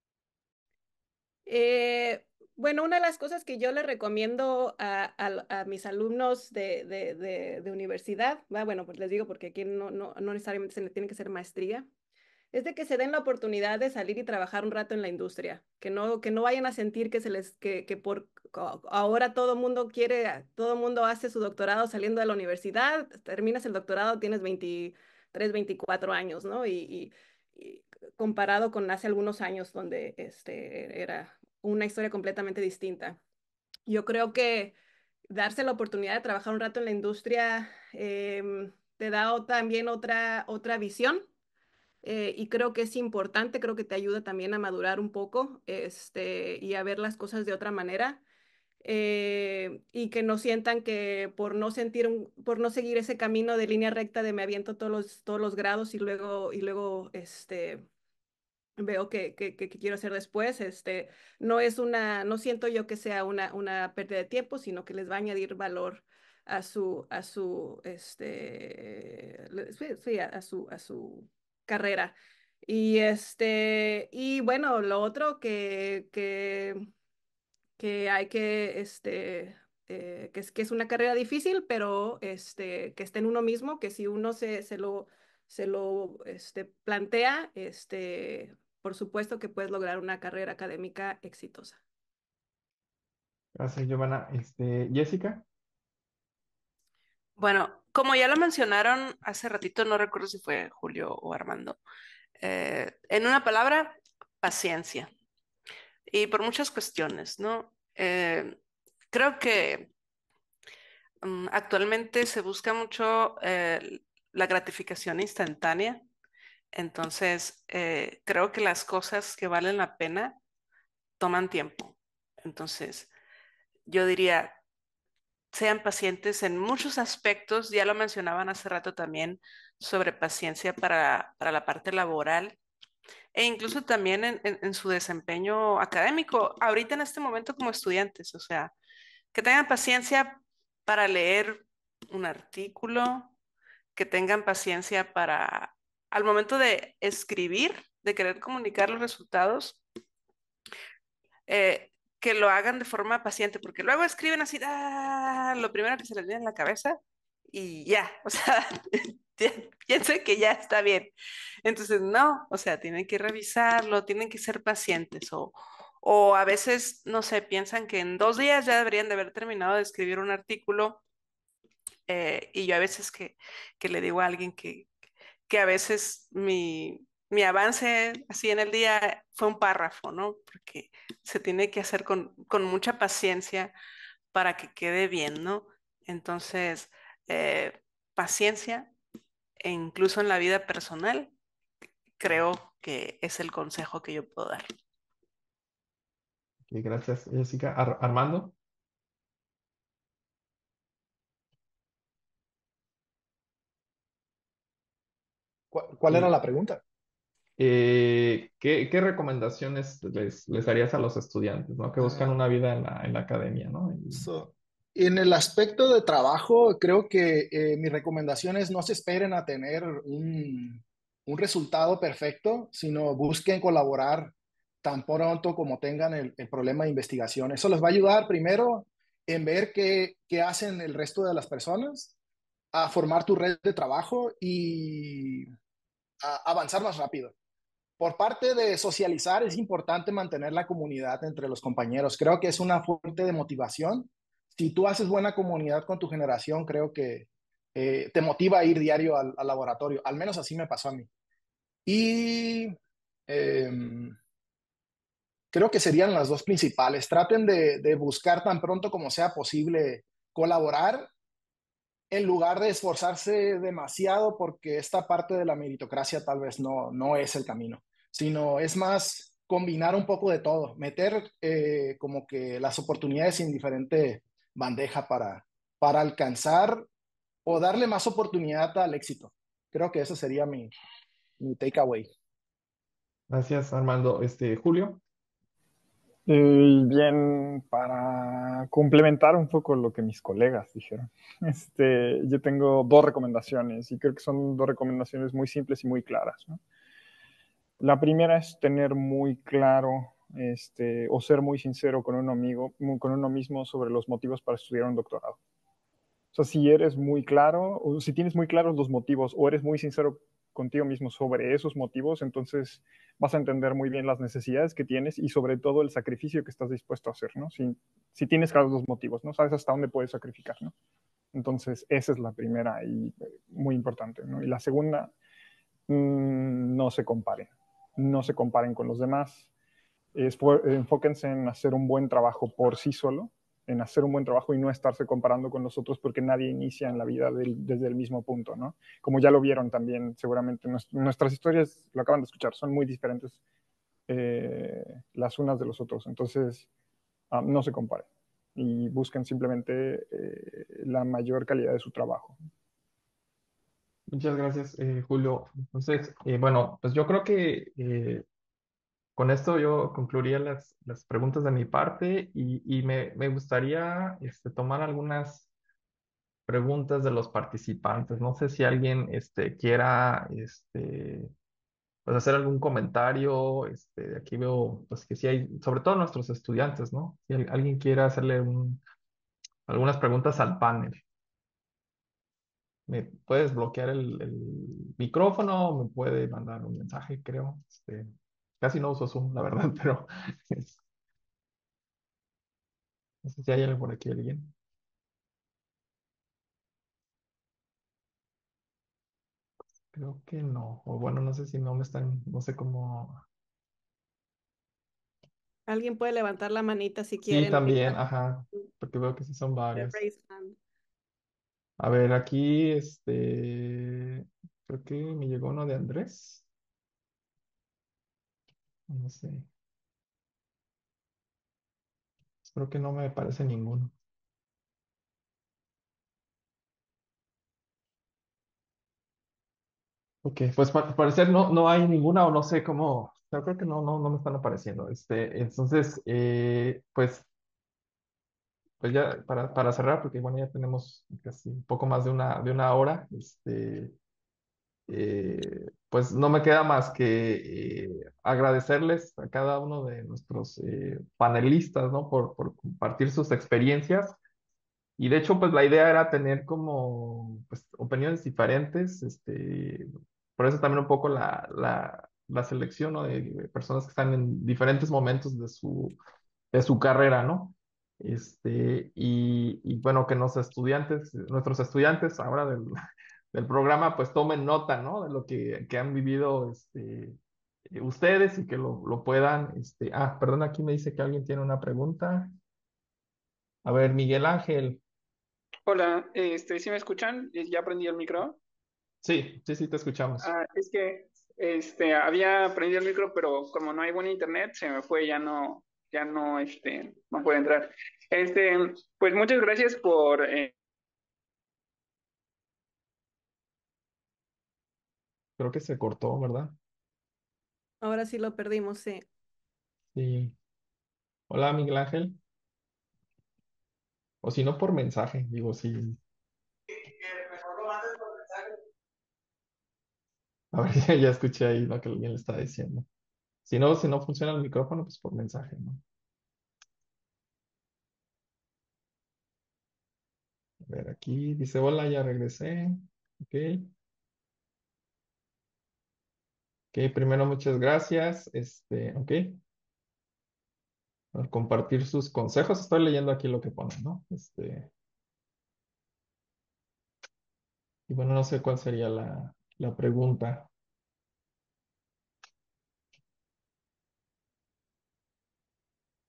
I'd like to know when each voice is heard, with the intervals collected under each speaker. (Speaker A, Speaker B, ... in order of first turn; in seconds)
Speaker A: 1.5-11.9, 12.5-33.2, 33.9-34.8, 35.3-41.2, 42.0-48.2, 48.8-57.9, 58.8-76.8, 77.8-91.8, 405.7-408.0, 409.8-410.6, 507.8-509.1
Speaker B: 93.5-95.5, 196.7-198.6, 207.6-214.3, 283.3-285.0, 354.1-358.2, 359.2-365.5, 366.5-371.3, 372.1-378.8, 379.7-381.0, 382.9-388.1, 388.6-390.8, 393.2-394.5, 399.9-403.2, 407.3-410.0, 411.8-416.5, 418.9-419.5, 422.4-423.9, 430.2-437.3, 438.8-443.9, 444.9-454.2, 455.0-466.0, 466.5-472.7, 473.3-477.2, 477.7-482.3, 483.6-484.8, 489.0-490.3, 505.4-506.6, 509.9-510.4, 511.3-512.2, 514.2-516.0, 520.5-522.9, 523.5-525.8, 530.6-533.7, 536.7-539.4, 541.1-544.7, 547.9-550.5
Speaker C: 97.4-101.8, 102.4-105.1, 106.1-108.6, 109.1-109.9, 111.2-116.0, 116.7-120.4, 121.2-123.1, 123.9-124.6, 125.5-132.6, 133.3-138.7, 139.3-143.3, 143.9-149.8, 151.5-157.0, 157.5-161.1, 161.7-171.0, 172.1-174.9, 175.5-183.7, 184.3-188.9, 189.6-191.3, 192.2-194.7
Speaker D: 205.7-206.8, 212.0-212.3, 214.1-232.1, 232.7-235.5, 236.2-237.3, 238.0-251.1, 251.9-252.8, 253.3-254.2, 255.5-261.1, 262.1-276.9, 277.5-280.7, 281.4-282.1
Speaker E: 286.3-296.6, 297.8-305.4, 306.3-320.7, 321.3-325.1, 325.9-329.5, 330.1-343.4, 344.1-346.7, 347.3-352.4
Speaker F: 485.7-488.4, 490.2-500.5